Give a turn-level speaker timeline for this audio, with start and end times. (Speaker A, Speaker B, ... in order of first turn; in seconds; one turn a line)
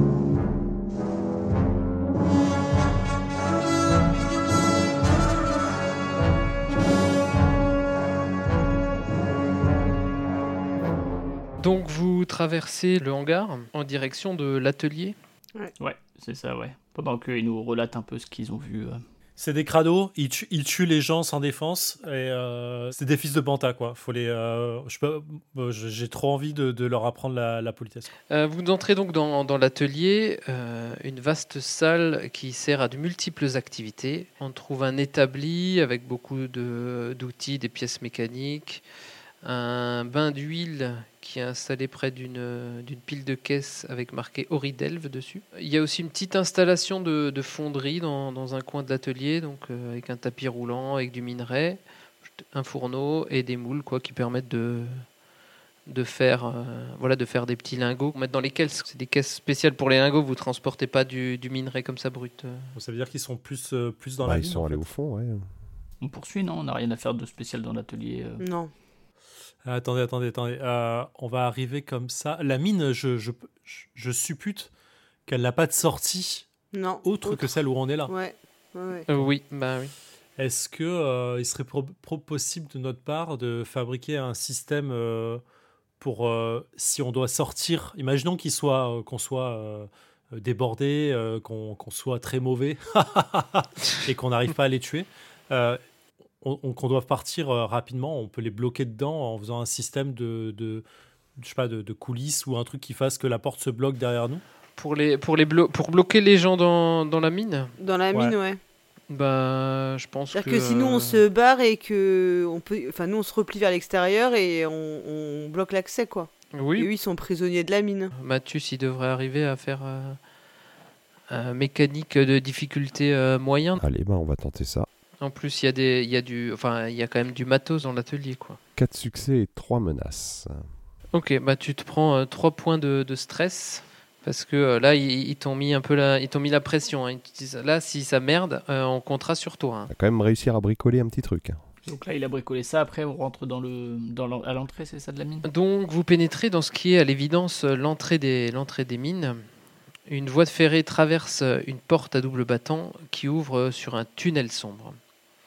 Speaker A: 11.6-15.2
Speaker B: 15.8-19.0
Speaker C: 19.4-28.1
Speaker A: 28.3-38.8
Speaker A: 39.4-51.8
Speaker A: 52.4-55.0
Speaker A: 55.9-62.7
Speaker C: 62.7-64.9
Speaker D: 64.2-65.5
Speaker B: 66.0-68.4
Speaker E: 68.4-68.7
Speaker C: 69.6-74.7
Speaker C: 75.3-76.5
Speaker E: 76.7-77.5
Speaker C: 77.0-78.1
Speaker E: 78.1-79.1
Speaker A: 79.1-79.9
Speaker C: 80.4-85.4
Speaker C: 86.0-95.8
Speaker C: 96.4-100.8
Speaker C: 101.4-104.4
Speaker A: 104.8-107.7
Speaker E: 107.8-108.6
Speaker A: 109.1-111.2
Speaker E: 110.3-118.1
Speaker A: 116.5-116.9
Speaker A: 118.1-120.2
Speaker A: 121.3-123.8
Speaker D: 123.8-124.9
Speaker A: 125.2-128.6
Speaker D: 128.8-130.7
Speaker A: 131.1-139.9
Speaker D: 139.9-141.6
Speaker B: 141.8-145.5
Speaker A: 145.4-149.4
Speaker A: 150.1-155.0